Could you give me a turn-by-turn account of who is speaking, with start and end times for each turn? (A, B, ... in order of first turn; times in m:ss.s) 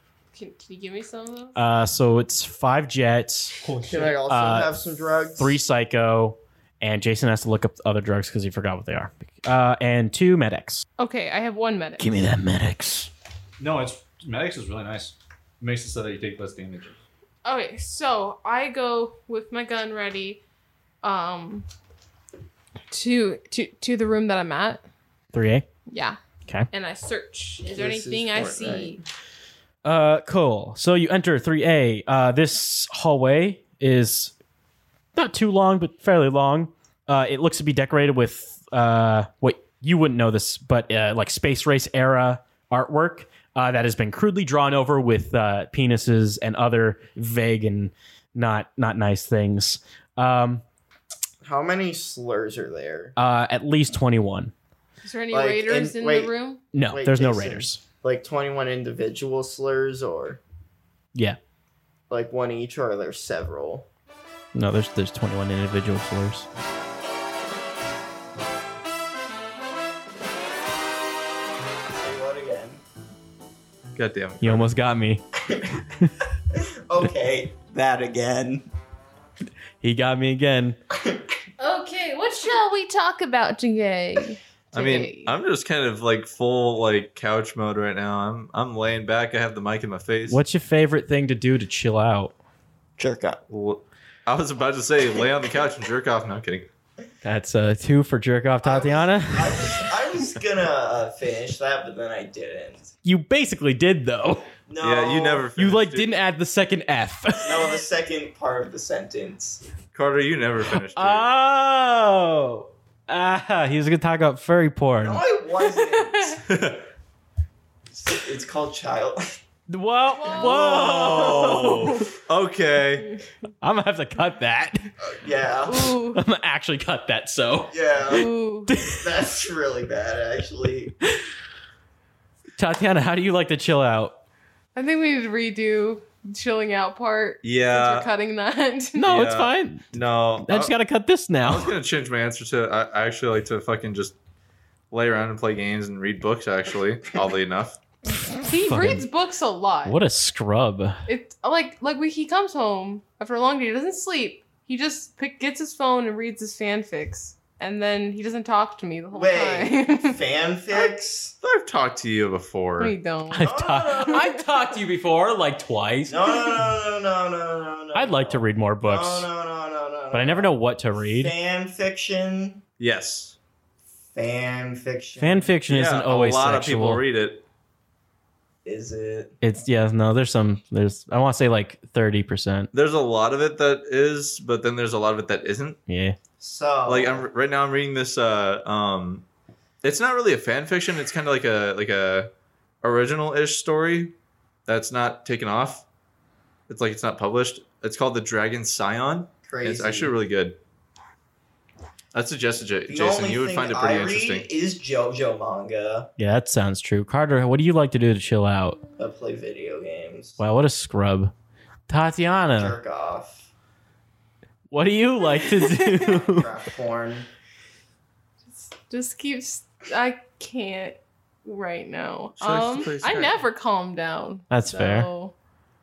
0:00.3-0:01.6 A
0:01.6-0:03.6 B
0:03.6-0:04.2 C
0:03.9-0:05.6 D
0:04.3-0:04.8 B
0:05.3-0:10.8 B
0:11.0-0:12.1 A
0:12.0-0:13.1 B
0:13.6-0:17.0 C
0:17.4-0:20.4 A
0:21.0-0:21.7 A
0:22.9-0:24.8 A
0:25.3-0:25.7 B
0:25.9-0:26.2 A
0:26.7-0:29.0 A
0:27.7-0:29.0 D
0:29.8-0:34.3 B
0:35.2-0:50.6 B
0:51.4-0:53.2 D
0:53.2-0:54.5 B
0:55.0-0:56.6 A
0:55.3-1:00.4 D
0:56.7-0:57.8 B
1:02.1-1:03.9 D
1:04.5-1:06.5 B
1:11.9-1:12.8 D
1:14.0-1:14.7 E
1:14.4-1:15.2 B
1:15.5-1:15.8 D
1:16.5-1:18.7 D
1:19.8-1:20.8 B
1:21.6-1:25.4 A
1:24.7-1:30.4 E
1:30.3-1:32.3 B
1:33.0-1:33.4 D
1:33.5-1:36.7 E
1:37.2-1:39.8 B
1:38.6-1:42.9 D
1:43.0-1:44.4 B
1:44.7-1:45.5 D
1:44.8-1:46.1 E
1:45.6-1:47.8 B
1:47.4-1:49.6 D
1:49.9-1:51.3 E
1:50.9-1:55.2 B
1:55.0-1:56.4 D
1:55.6-1:56.4 A
1:56.4-1:56.8 E
1:58.0-1:59.3 D
1:59.7-2:01.9 B
2:00.1-2:02.2 A
2:00.4-2:03.1 E
2:00.6-2:01.3 D
2:03.6-2:04.8 B
2:05.0-2:06.0 D
2:05.7-2:06.2 A
2:06.1-2:09.0 B
2:07.7-2:08.3 D
2:08.1-2:08.7 A
2:08.8-2:10.9 D
2:12.6-2:14.2 B
2:14.8-2:19.2 A
2:17.4-2:18.1 E
2:19.0-2:21.8 B
2:19.1-2:20.8 E
2:21.4-2:24.2 E
2:24.9-2:27.8 E
2:28.4-2:30.0 A
2:28.7-2:29.0 B
2:29.8-2:31.0 B
2:31.1-2:40.2 A
2:39.1-2:41.4 D
2:41.4-2:43.0 E
2:42.8-2:44.3 A
2:43.3-2:46.2 B
2:43.4-2:44.4 D
2:46.1-2:52.6 D
2:47.9-2:49.3 B
2:50.1-2:51.3 B
2:52.8-2:53.4 E
2:54.1-2:55.5 D
2:55.2-2:57.0 B
2:55.7-2:57.4 E
2:58.6-2:59.4 D
2:59.4-3:02.7 B
3:02.7-3:05.8 E
3:05.9-3:06.2 B
3:06.4-3:07.3 D
3:06.9-3:09.2 E
3:09.8-3:12.3 E
3:12.8-3:14.1 E
3:14.7-3:15.8 E
3:16.7-3:20.6 E
3:19.4-3:20.2 D
3:22.1-3:24.5 E
3:22.9-3:26.1 D
3:26.2-3:28.8 B
3:29.0-3:30.4 D
3:30.4-3:31.3 B
3:31.9-3:32.8 B
3:32.6-3:33.5 D
3:34.7-3:36.5 B
3:35.5-3:35.8 A
3:36.0-3:37.3 D
3:38.5-3:45.3 A
3:42.4-3:43.4 E
3:44.5-3:45.1 B